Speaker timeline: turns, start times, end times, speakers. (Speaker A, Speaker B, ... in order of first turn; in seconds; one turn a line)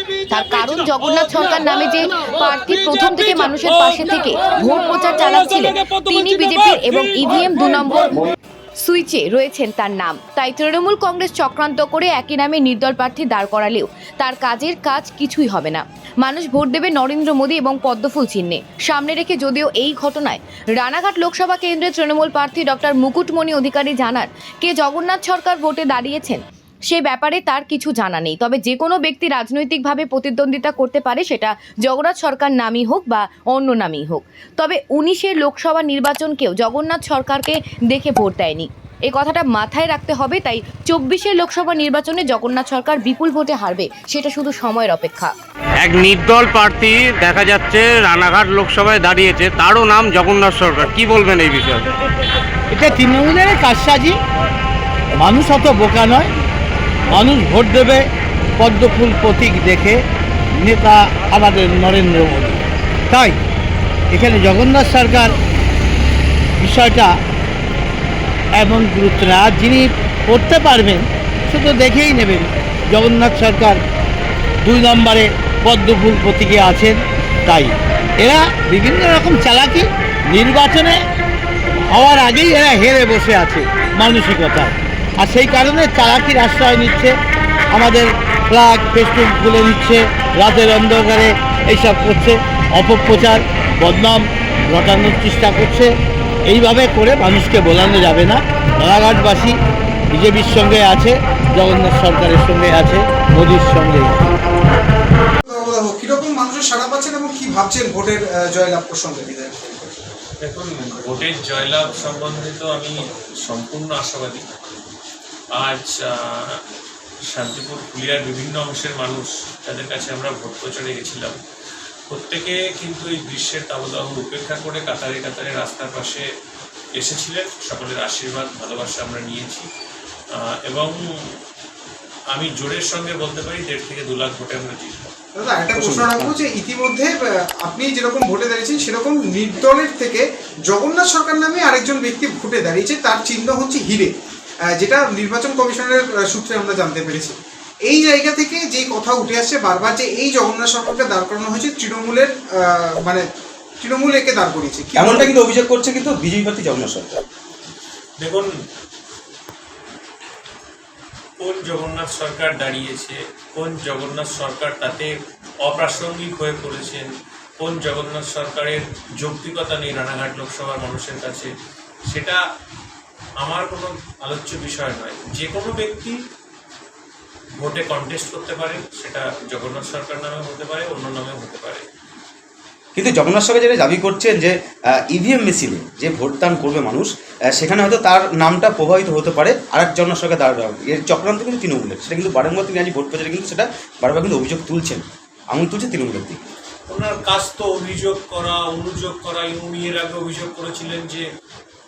Speaker A: 0.3-45.3
Speaker B: 45.8-51.9
Speaker C: 52.7-54.1
Speaker C: 55.2-56.3
Speaker C: 57.1-58.0
Speaker C: 58.6-60.0
Speaker C: 60.5-63.4
Speaker C: 64.1-65.3
Speaker C: 66.6-67.2
Speaker C: 68.5-73.8
Speaker C: 74.6-81.0
Speaker C: 81.7-87.1
Speaker C: 87.7-95.9
Speaker C: 96.5-99.6
Speaker C: 100.1-104.2
Speaker D: 105.5-110.0
Speaker E: 110.4-114.4
Speaker E: 115.6-116.6
Speaker E: 117.3-121.4
Speaker E: 122.1-126.2
Speaker E: 127.0-129.7
Speaker E: 130.7-131.4
Speaker E: 132.3-135.1
Speaker D: 135.4-144.1
Speaker F: 135.8-136.4
Speaker D: 144.8-147.4
Speaker D: 147.9-153.2
Speaker D: 153.8-155.4
Speaker F: 155.0-157.2
Speaker E: 158.2-158.5
Speaker E: 161.4-165.1
Speaker E: 165.7-167.1
Speaker E: 167.6-171.5
Speaker E: 172.1-172.4
Speaker E: 173.4-176.2
Speaker E: 177.6-181.8
Speaker F: 183.0-196.4
Speaker E: 196.9-201.3